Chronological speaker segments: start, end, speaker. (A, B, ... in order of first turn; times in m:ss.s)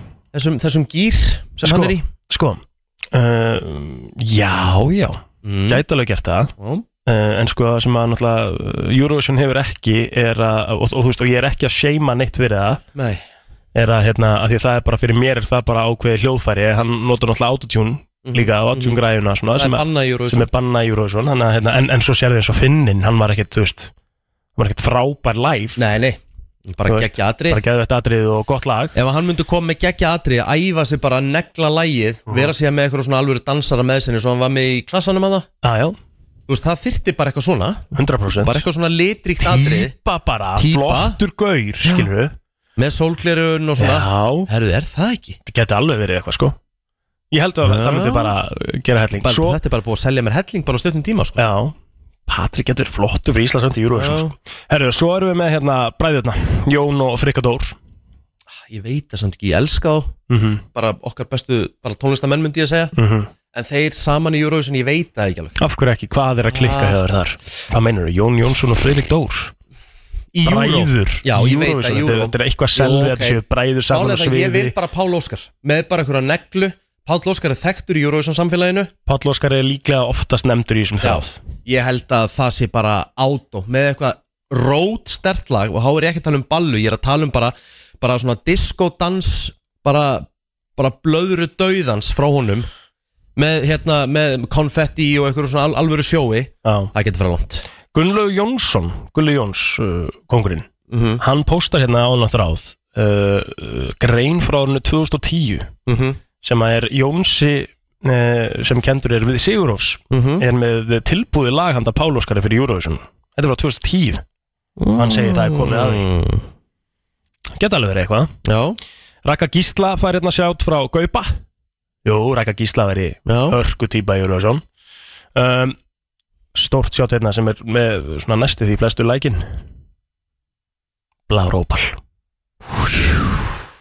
0:00.3-0:02.0 A
0:01.6-0:02.6 B
0:03.1-0:06.5 B
0:05.4-0:05.8 A
0:06.6-0:06.8 A
0:07.0-0:12.8 B
0:12.9-0:13.2 A
0:13.7-0:23.9 B
0:18.2-0:19.0 A
0:19.5-0:20.5 A
0:24.6-0:25.8 B
0:25.8-0:27.6 A
0:26.9-0:29.0 B
0:28.9-0:35.5 A
0:35.6-0:36.0 B
0:36.5-0:37.8 A
0:37.9-0:38.6 B
0:38.4-0:39.9 A
0:39.4-0:42.3 B
0:40.6-0:41.2 A
0:41.8-0:42.1 A
0:42.8-0:45.4 A
0:43.8-0:44.5 B
0:45.4-0:46.6 B
0:47.3-0:49.6 B
0:47.6-0:48.3 A
0:49.2-0:51.4 A
0:51.4-0:51.7 B
0:52.3-0:57.8 B
0:53.9-0:54.3 A
0:58.5-1:00.1 A
1:00.3-1:00.6 B
1:00.7-1:02.9 A
1:03.0-1:03.3 B
1:03.5-1:05.6 A
1:05.6-1:09.5 B
1:06.5-1:07.0 A
1:10.3-1:18.9 A
1:10.4-1:14.7 B
1:19.1-1:21.4 B
1:21.0-1:32.7 A
1:33.4-1:37.6 A
1:36.6-1:36.9 B
1:37.9-1:40.6 B
1:40.9-1:41.2 A
1:41.2-1:45.7 B
1:45.8-1:46.2 A
1:46.4-1:54.2 B
1:50.1-1:50.4 A
1:54.8-1:56.4 A
1:55.0-1:56.1 B
1:57.6-1:58.3 B
1:58.4-1:58.8 A
1:59.2-2:01.4 B
2:02.0-2:04.6 B
2:03.3-2:03.6 A
2:05.4-2:05.8 B
2:06.5-2:09.4 B
2:11.3-2:12.0 B
2:12.7-2:13.5 A